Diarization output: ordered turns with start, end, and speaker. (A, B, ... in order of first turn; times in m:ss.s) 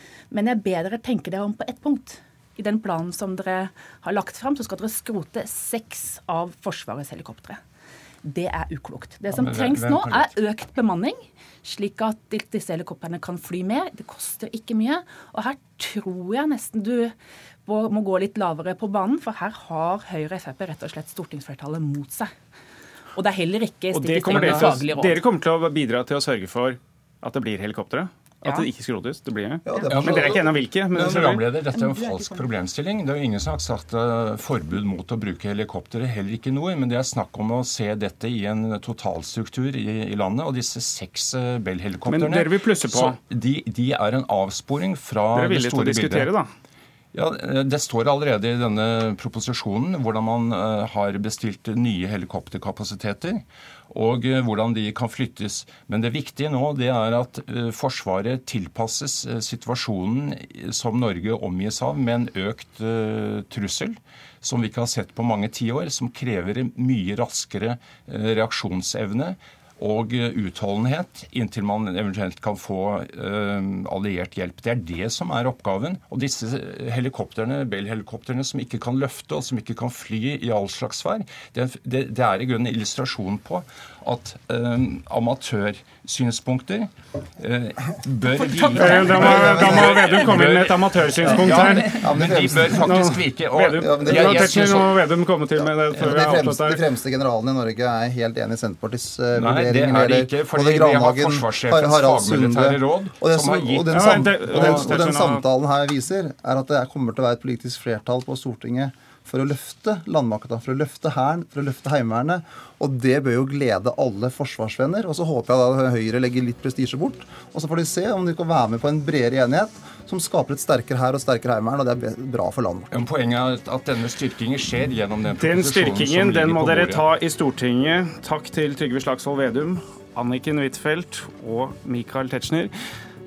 0:00.3-0:07.6 A
0:08.2-0:17.1 A
0:09.4-0:10.3 B
0:17.6-0:22.3 A
0:23.2-0:25.2 A
0:23.9-0:31.4 C
0:24.3-0:24.8 B
0:29.7-0:30.5 D
0:29.9-0:30.2 B
0:30.9-0:46.3 B
0:31.8-0:32.4 A
0:42.1-0:43.2 C
0:45.3-0:46.5 C
0:47.1-1:35.1 B
1:28.8-1:31.9 C
1:28.9-1:30.1 D
1:31.2-1:33.0 D
1:32.8-1:36.8 C
1:33.8-1:34.5 D
1:35.9-2:02.9 D
1:39.4-1:45.0 B
1:43.9-1:45.4 C
2:02.9-2:07.1 B
2:05.4-2:12.7 C